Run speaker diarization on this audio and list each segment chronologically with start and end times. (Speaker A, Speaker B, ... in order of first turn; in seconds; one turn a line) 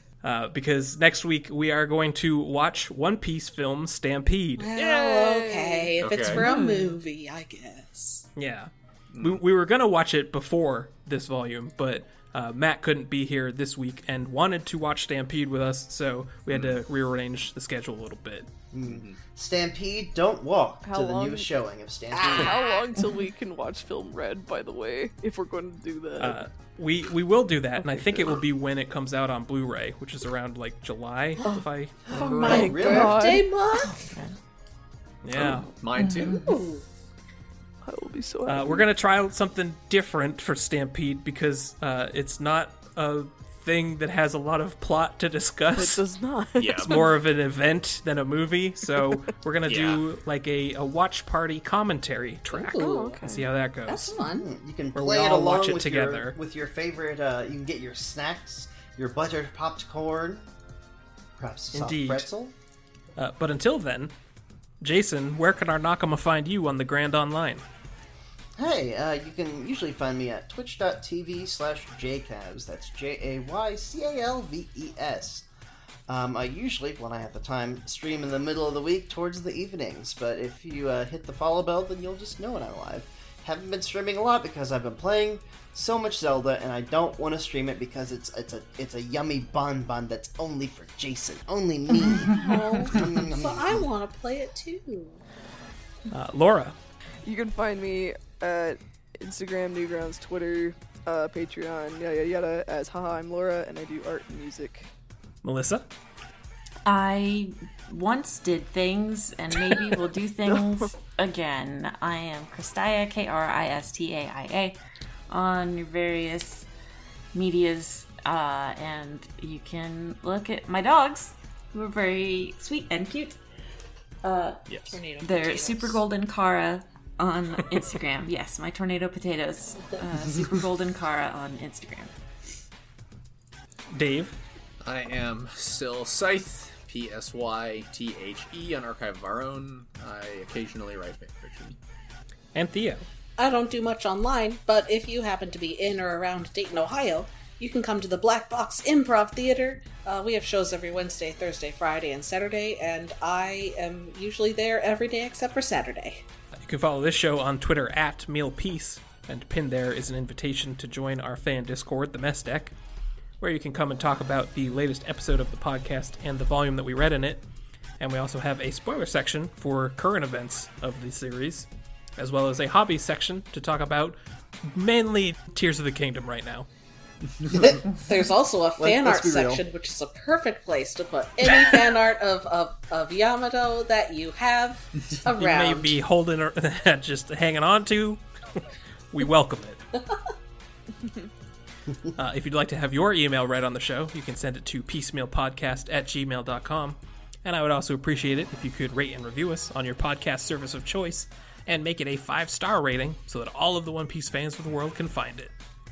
Speaker A: 0.2-4.7
Speaker B: 4.6-8.2
Speaker C: 4.7-6.8
Speaker D: 6.0-6.4
Speaker E: 6.3-7.0
Speaker A: 8.3-18.5
Speaker D: 9.1-9.4
Speaker D: 16.5-16.8
Speaker F: 18.7-22.6
Speaker D: 18.8-19.2
Speaker C: 20.8-21.5
Speaker B: 22.1-23.0
Speaker C: 22.3-26.4
Speaker A: 26.2-32.0
Speaker C: 27.8-28.3
Speaker F: 32.1-33.3
Speaker B: 32.1-34.1
Speaker D: 32.1-32.6
Speaker C: 32.3-33.5
Speaker E: 33.8-34.3
Speaker A: 35.2-35.7
Speaker D: 35.3-36.4
Speaker E: 36.0-36.4
Speaker B: 36.2-36.8
Speaker C: 37.8-38.9
Speaker A: 38.5-46.0
Speaker C: 45.7-47.1
Speaker D: 46.6-47.0
Speaker A: 46.8-54.2
Speaker D: 49.6-50.0
Speaker B: 52.5-53.2
Speaker C: 52.7-53.5
Speaker B: 53.9-54.5
Speaker F: 54.2-60.5
Speaker A: 54.9-56.4
Speaker F: 61.4-62.5
Speaker A: 61.7-62.3
Speaker A: 63.1-64.1
Speaker A: 64.8-67.6
Speaker F: 68.6-75.5
Speaker F: 76.1-93.9
Speaker B: 92.2-95.2
Speaker A: 96.1-96.7
Speaker C: 97.2-104.9
Speaker A: 105.4-105.9
Speaker E: 106.8-114.8
Speaker C: 109.5-109.9
Speaker C: 110.5-110.9
Speaker E: 115.3-116.7
Speaker E: 117.3-123.4
Speaker E: 124.2-132.1
Speaker D: 124.7-125.0
Speaker B: 124.9-126.0
Speaker A: 133.9-134.3
Speaker D: 134.8-141.8
Speaker A: 142.5-143.1
Speaker B: 143.4-156.2
Speaker A: 156.6-162.7
Speaker A: 163.4-167.4
Speaker A: 168.0-176.7
Speaker D: 177.4-177.7
Speaker F: 177.5-177.8
Speaker B: 177.9-186.0
Speaker F: 178.8-179.6
Speaker A: 185.4-189.8
Speaker A: 192.1-205.5